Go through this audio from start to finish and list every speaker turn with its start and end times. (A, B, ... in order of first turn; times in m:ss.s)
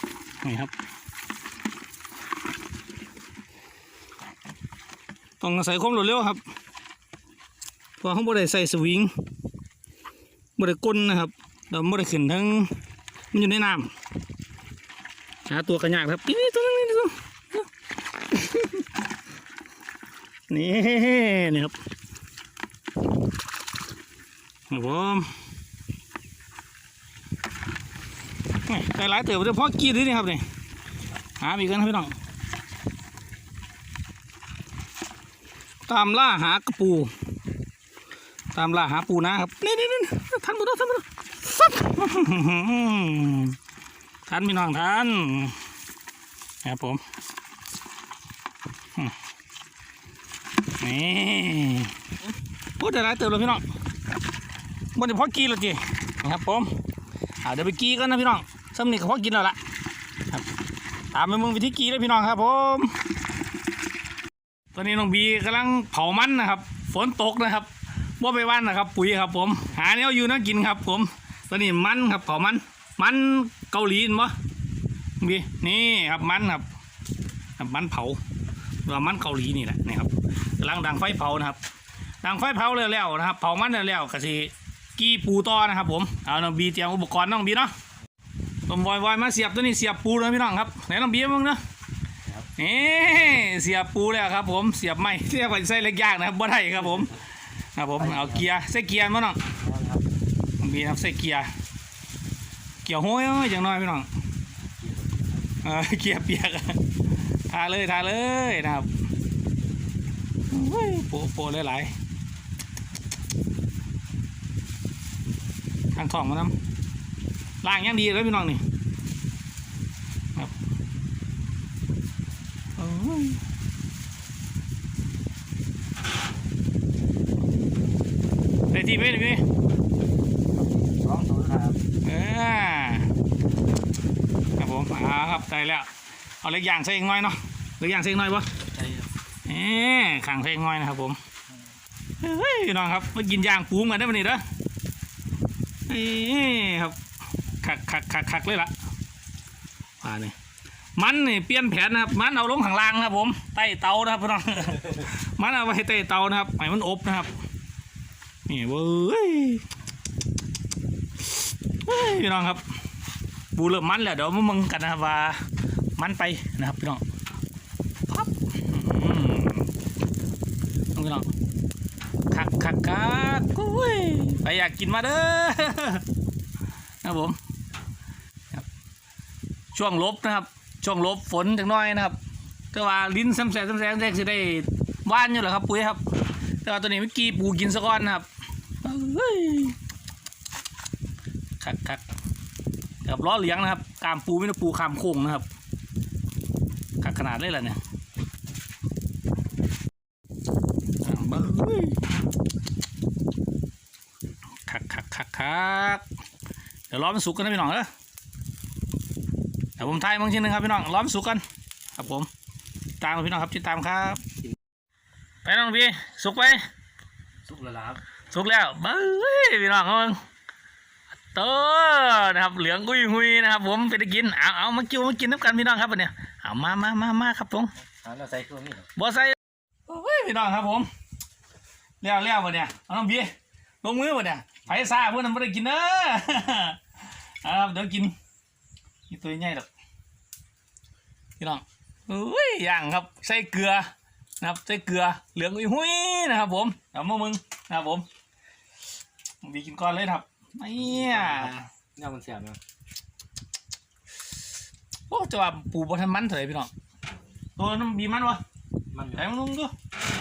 0:00.4-0:00.7 A
0:05.4-0:06.4 A
0:08.0-0:09.1 A
0:10.6-0:12.7 A
0:13.3-0:13.9 A
0:15.5-0:17.6 A
0:18.3-0:18.8 A
0:20.5-0:21.7 A
0:24.7-0:25.3 A
0:28.6-0:30.4 A
0:31.4-0:32.1 A
0:35.9-0:37.1 A
0:38.5-0:43.6 A
0:44.3-0:45.6 A
0:46.6-0:47.0 A
0:50.8-0:51.9 A
0:52.8-0:53.6 A
0:54.9-0:56.7 A
0:57.4-0:59.6 A
1:01.1-1:03.0 A
1:04.7-1:14.3 A
1:15.2-1:16.6 A
1:17.6-1:18.2 A
1:18.8-1:21.6 A
1:22.2-1:27.7 A
1:28.7-1:31.6 A
1:32.6-1:37.2 A
1:37.7-1:39.4 A
1:38.0-1:38.5 B
1:39.6-1:40.1 B
1:40.6-1:41.5 A
1:42.8-1:44.1 A
1:44.8-1:45.5 B
1:45.6-1:46.8 A
1:47.5-1:48.9 A
1:50.5-1:51.9 A
1:55.9-1:56.6 A
1:57.6-1:58.6 A
2:02.8-2:03.4 A
2:08.7-2:09.4 A
2:10.5-2:11.8 B
2:12.0-2:13.1 A
2:14.6-2:15.9 A
2:16.4-2:18.6 A
2:19.4-2:21.2 A
2:22.2-2:24.4 A
2:25.9-2:27.0 A
2:27.6-2:28.7 A
2:30.0-2:30.3 A
2:31.0-2:37.3 A
2:38.5-2:39.6 A
2:41.8-2:42.6 A
2:43.5-2:45.4 A
2:46.0-2:47.0 A
2:48.1-2:49.7 A
2:50.9-2:51.3 A
2:52.3-2:56.0 A
2:57.0-2:57.4 A
2:59.7-3:02.2 A
3:02.7-3:06.0 A
3:06.6-3:08.3 A
3:08.8-3:09.8 A
3:11.6-3:12.0 A
3:13.0-3:15.4 A
3:17.0-3:17.8 A
3:21.0-3:22.0 A
3:24.7-3:26.0 A
3:26.9-3:27.9 A
3:29.8-3:31.4 A
3:32.0-3:32.3 A
3:33.0-3:34.2 A
3:35.4-3:36.6 A
3:37.4-3:38.0 B
3:38.3-3:40.2 A
3:41.3-3:47.7 A
3:48.0-3:48.9 B
3:49.0-3:50.9 A
3:52.0-3:53.3 A
3:53.8-3:56.8 A
3:57.4-3:58.2 A
3:59.1-3:59.7 A
4:01.4-4:08.0 A
4:09.4-4:11.7 A
4:10.8-4:12.6 B
4:15.1-4:16.7 A
4:17.6-4:18.4 A
4:18.9-4:19.3 B
4:19.2-4:19.7 A